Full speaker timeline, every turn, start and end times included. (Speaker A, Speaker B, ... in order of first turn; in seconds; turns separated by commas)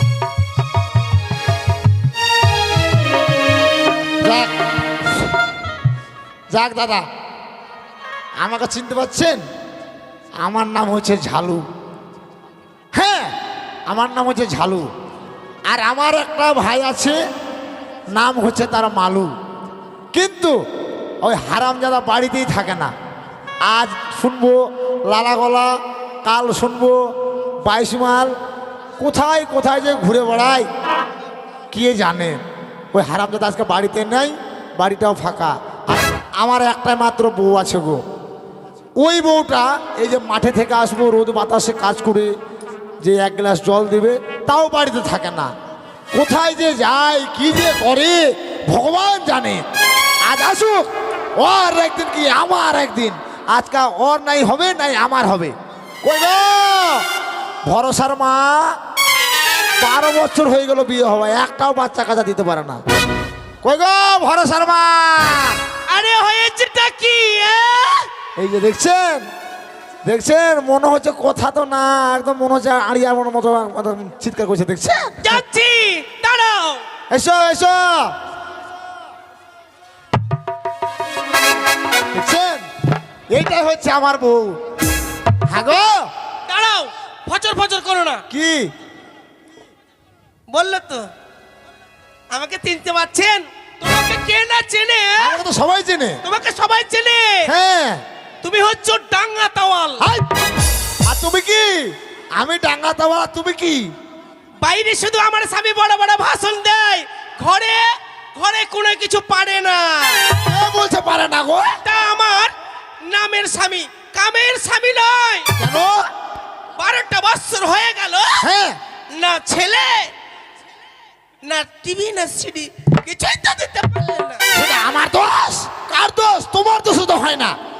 Speaker A: 4.2-5.3, Speaker A: 6.5-7.1, Speaker A: 8.4-9.4, Speaker A: 10.4-11.6, Speaker A: 12.9-13.3, Speaker A: 13.9-14.9, Speaker A: 15.7-17.2, Speaker A: 18.1-19.3, Speaker A: 20.1-20.6, Speaker A: 21.2-22.9, Speaker A: 23.7-27.0, Speaker A: 27.6-28.3, Speaker A: 29.0-30.7, Speaker A: 31.7-32.4, Speaker A: 32.9-38.0, Speaker A: 39.0-42.3, Speaker A: 43.0-45.5, Speaker A: 46.1-49.6, Speaker A: 50.2-57.0, Speaker A: 57.7-58.8, Speaker A: 59.8-62.8, Speaker A: 63.6-65.6, Speaker B: 65.9-68.1, Speaker A: 68.4-69.3, Speaker A: 70.0-75.4, Speaker B: 75.2-76.8, Speaker A: 77.1-78.2, Speaker A: 82.1-82.7, Speaker A: 83.3-84.6, Speaker A: 85.5-86.1, Speaker B: 86.5-88.2, Speaker A: 88.3-88.7, Speaker B: 90.5-91.1, Speaker B: 92.3-95.4, Speaker A: 95.2-96.2, Speaker B: 96.2-97.5, Speaker A: 97.5-98.0, Speaker B: 98.4-100.1, Speaker A: 100.0-100.4, Speaker A: 101.0-103.9, Speaker B: 104.6-110.3, Speaker A: 110.4-111.8, Speaker B: 111.8-115.5, Speaker A: 115.6-116.0, Speaker B: 116.8-118.4, Speaker A: 118.4-118.8, Speaker B: 119.1-120.1, Speaker B: 121.4-124.4, Speaker A: 124.5-127.6